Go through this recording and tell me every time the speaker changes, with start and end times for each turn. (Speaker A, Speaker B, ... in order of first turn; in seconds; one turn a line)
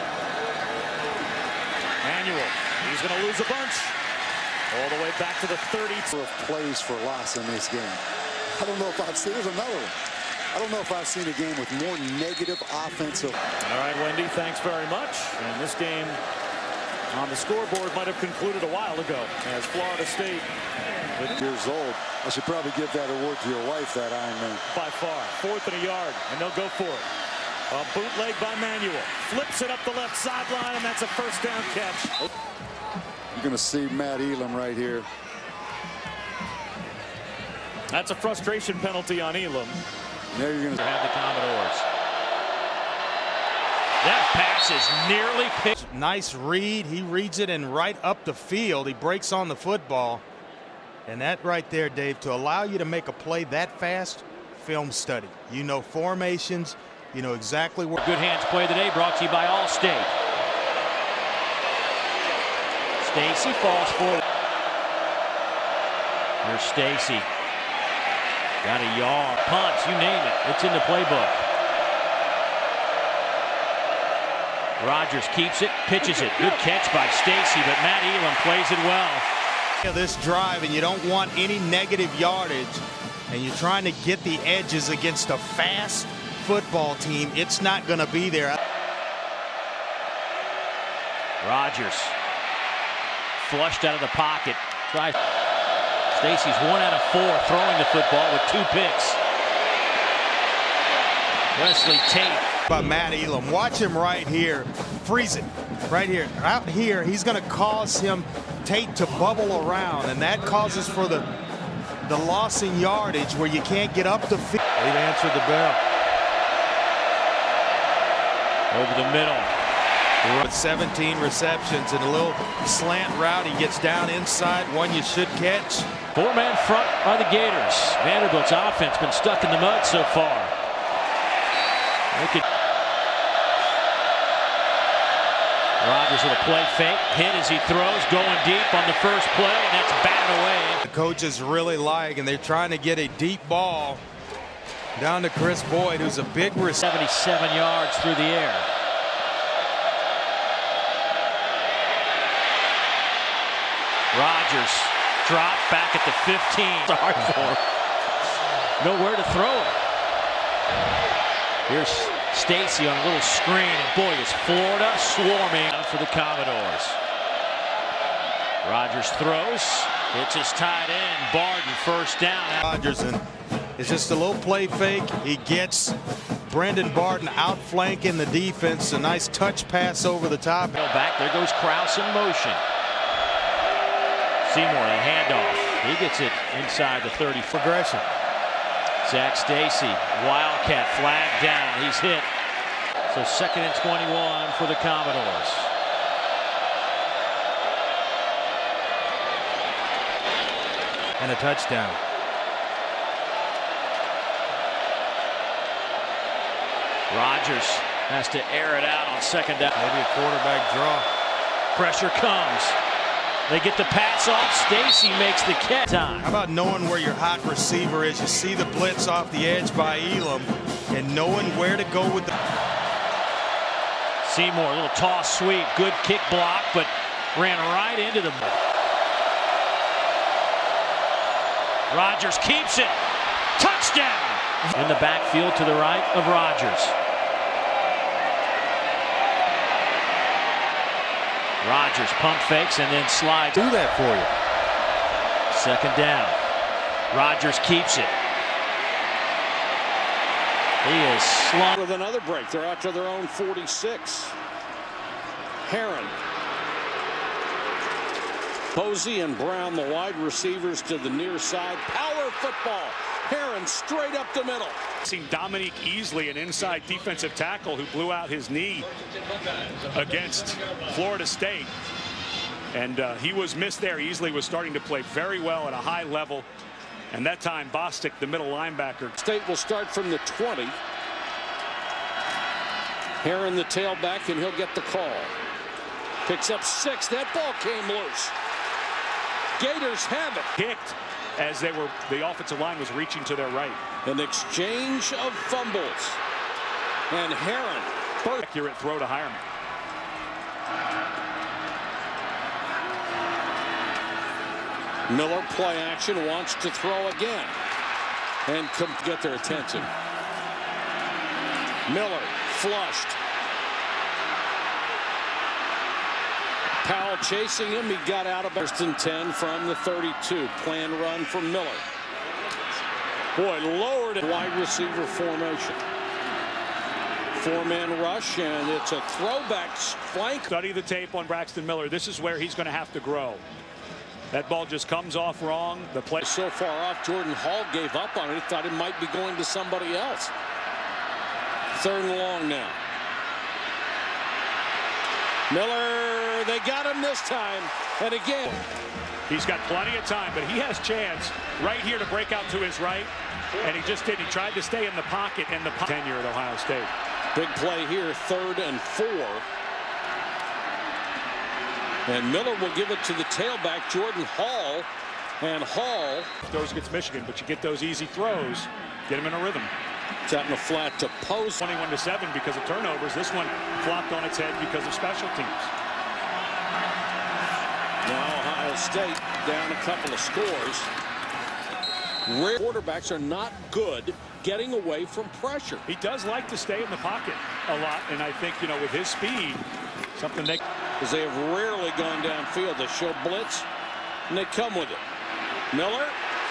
Speaker A: 2.0-4.0
Speaker A: 4.7-6.1
Speaker B: 6.1-8.0
Speaker B: 8.5-10.0
Speaker B: 10.5-13.4
Speaker A: 13.6-16.2
Speaker A: 17.1-20.5
Speaker B: 21.2-24.6
Speaker A: 24.7-27.1
Speaker A: 27.7-32.3
Speaker B: 33.3-35.1
Speaker A: 37.9-39.8
Speaker B: 40.3-40.8
Speaker A: 40.8-41.8
Speaker C: 41.1-41.9
Speaker C: 44.0-45.6
Speaker A: 44.6-45.7
Speaker D: 45.7-50.2
Speaker D: 51.1-58.0
Speaker C: 58.0-60.1
Speaker C: 63.0-64.2
Speaker C: 66.4-67.3
Speaker C: 68.6-71.4
Speaker C: 74.8-79.3
Speaker A: 75.9-76.9
Speaker D: 79.8-88.6
Speaker C: 91.4-92.2
Speaker C: 93.4-95.2
Speaker C: 96.1-99.2
Speaker C: 101.5-102.5
Speaker D: 102.7-111.3
Speaker D: 112.0-115.8
Speaker C: 118.7-119.5
Speaker D: 120.2-125.9
Speaker C: 126.1-130.5
Speaker A: 129.7-130.1
Speaker C: 132.1-132.4
Speaker C: 135.8-140.8
Speaker A: 137.6-138.0
Speaker D: 140.8-144.0
Speaker D: 145.0-146.8
Speaker C: 146.8-148.7
Speaker C: 154.1-157.6
Speaker C: 158.8-159.8
Speaker C: 161.7-167.0
Speaker C: 168.6-172.6
Speaker D: 172.6-173.2
Speaker D: 173.8-176.0
Speaker D: 176.5-180.8
Speaker C: 180.8-182.6
Speaker A: 180.8-182.4
Speaker C: 184.4-187.4
Speaker A: 184.6-187.5
Speaker D: 187.5-188.1
Speaker C: 189.0-192.3
Speaker A: 191.2-191.7
Speaker C: 193.1-195.7
Speaker A: 194.5-195.4
Speaker D: 201.2-202.0
Speaker C: 207.1-209.7
Speaker D: 209.8-211.1
Speaker C: 211.7-212.8
Speaker C: 213.5-216.2
Speaker D: 216.2-222.3
Speaker C: 224.2-228.6
Speaker C: 231.9-233.0
Speaker C: 233.6-236.9
Speaker C: 241.6-243.5
Speaker D: 243.6-244.3
Speaker C: 245.5-246.4
Speaker C: 247.1-248.1
Speaker C: 250.8-251.7
Speaker E: 251.7-254.4
Speaker E: 255.6-256.2
Speaker E: 258.7-264.8
Speaker F: 265.1-268.9
Speaker F: 269.9-271.7
Speaker F: 272.7-276.5
Speaker F: 277.1-279.1
Speaker E: 279.2-280.8
Speaker E: 283.2-285.3
Speaker E: 286.2-288.4
Speaker E: 289.6-290.5
Speaker F: 290.6-293.8
Speaker E: 294.1-296.2
Speaker E: 297.1-298.3
Speaker F: 298.4-299.4
Speaker E: 305.1-307.6
Speaker E: 308.5-309.9
Speaker E: 311.9-313.2
Speaker E: 316.8-321.8
Speaker E: 323.4-325.8
Speaker E: 327.3-330.5
Speaker F: 330.5-333.4
Speaker F: 334.3-336.2
Speaker E: 336.2-340.3
Speaker E: 341.7-342.8
Speaker E: 345.5-348.6
Speaker F: 349.3-353.1
Speaker F: 353.6-356.9
Speaker E: 357.3-359.4
Speaker E: 362.1-364.9
Speaker E: 365.4-366.3
Speaker F: 366.4-369.7
Speaker E: 370.3-371.6
Speaker F: 371.6-375.7
Speaker E: 378.0-380.9
Speaker E: 382.3-385.8
Speaker F: 385.9-389.6
Speaker F: 390.2-390.6
Speaker E: 391.0-393.7
Speaker E: 394.3-395.0
Speaker E: 395.7-396.2